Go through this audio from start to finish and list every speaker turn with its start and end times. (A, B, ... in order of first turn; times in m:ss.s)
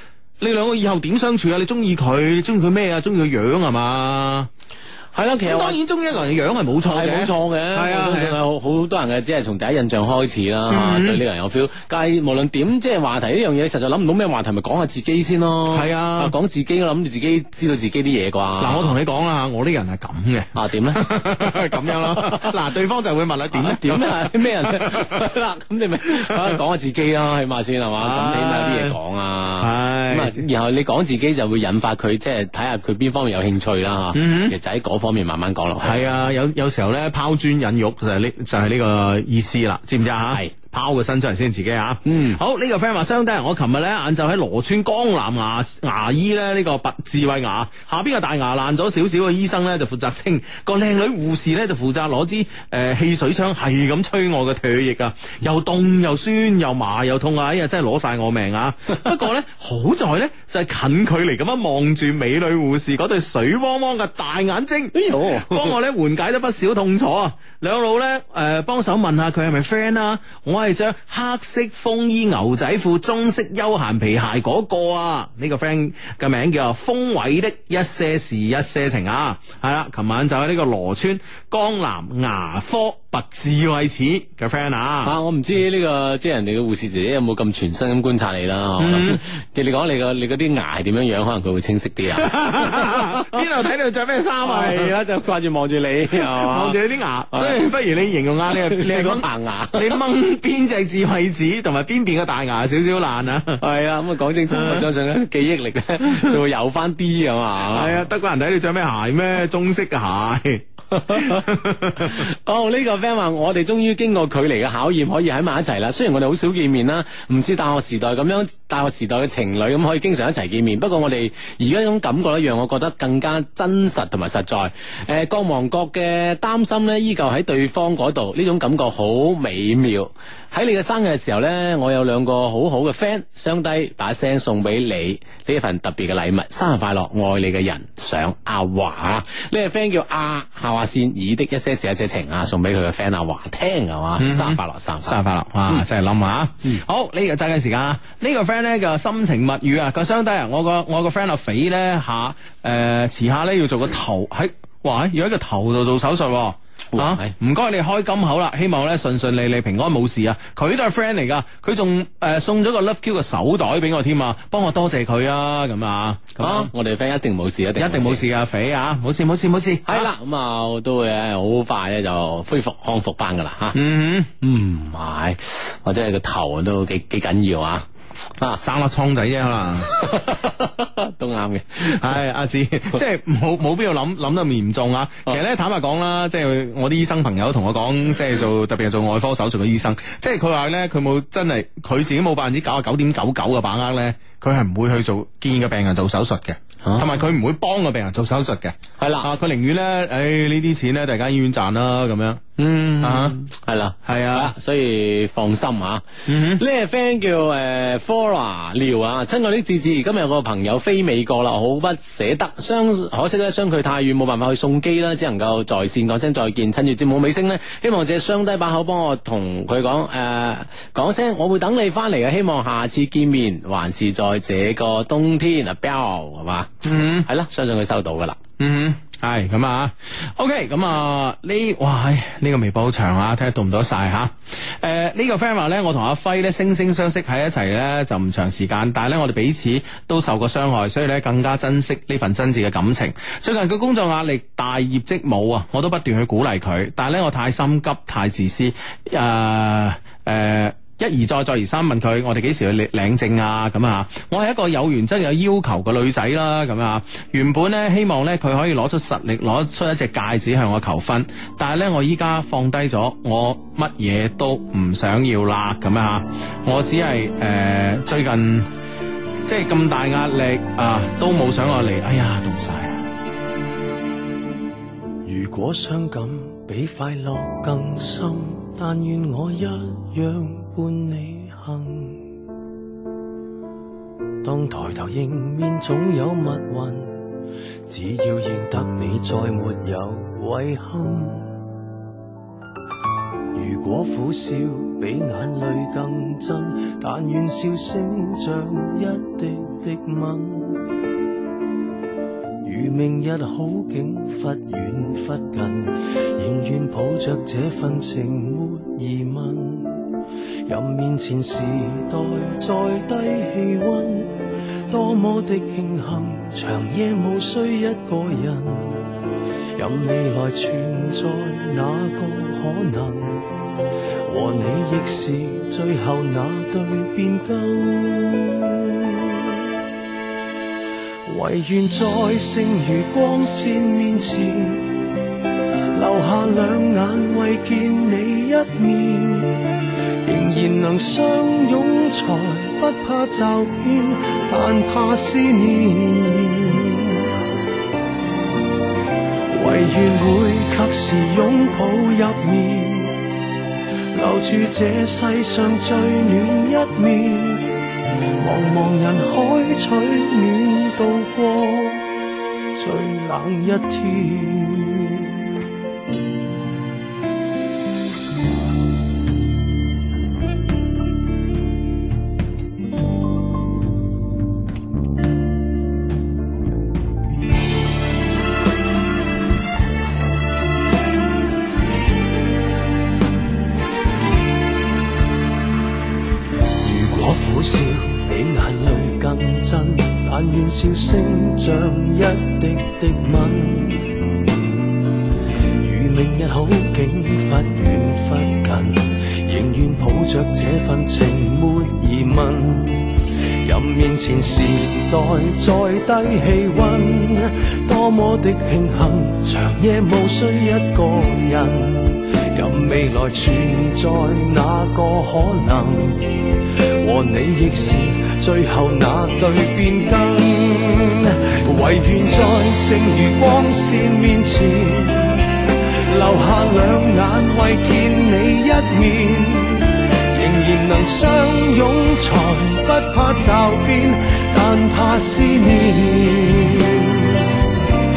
0:00.4-0:04.5 A
0:05.1-0:05.8 B
0:05.5-0:08.4 A
0:06.8-0:19.0 B
0:10.7-0:11.2 A
0:15.7-0:16.3 A
0:18.6-0:25.3 A
0:20.5-0:22.6 B
0:23.5-0:36.1 B
0:26.2-0:26.6 A
0:28.0-0:29.0 A
0:29.6-0:30.4 A
0:34.1-0:34.5 A
0:35.8-1:25.1 A
0:42.0-0:42.4 B
1:04.9-1:05.7 B
1:25.0-1:33.4 B
1:28.8-1:29.2 A
1:32.2-1:34.9 A
1:34.4-1:36.8 B
1:36.1-1:43.6 A
1:37.3-1:37.6 B
1:38.5-1:40.0 B
1:43.6-1:48.0 B
1:44.5-1:44.9 A
1:46.0-1:46.4 A
1:47.7-1:52.3 A
1:50.9-1:51.5 B
1:52.0-2:25.2 B
2:24.2-2:46.7 A
2:36.9-2:37.3 B
2:46.4-2:48.2 B
2:47.8-2:50.1 A
2:49.8-2:53.8 B
2:53.7-2:54.3 A
2:54.4-2:57.9 B
2:58.5-2:59.9 A
2:59.8-3:02.0 B
3:01.8-3:22.4 A
3:16.8-3:17.1 B
3:19.0-3:19.3 B
3:22.6-3:48.4 B
3:23.0-3:23.4 A
3:24.0-3:24.5 A
3:26.3-3:26.6 A
3:46.8-3:47.3 A
3:48.6-4:28.7 A
4:29.4-4:33.0 A
4:35.2-4:42.3 C
4:44.4-4:47.3 C
4:47.9-4:51.6 C
4:53.5-5:00.9 C
5:02.6-5:10.1 C
5:10.6-5:19.1 C
5:19.8-5:23.5 C
5:24.2-5:29.7 C
5:31.2-5:35.0 C
5:35.9-5:47.3 C
5:49.5-5:53.2 C
5:54.1-6:02.1 C
6:02.7-6:05.5 C
6:26.7-6:34.4 C
6:35.8-7:17.5 C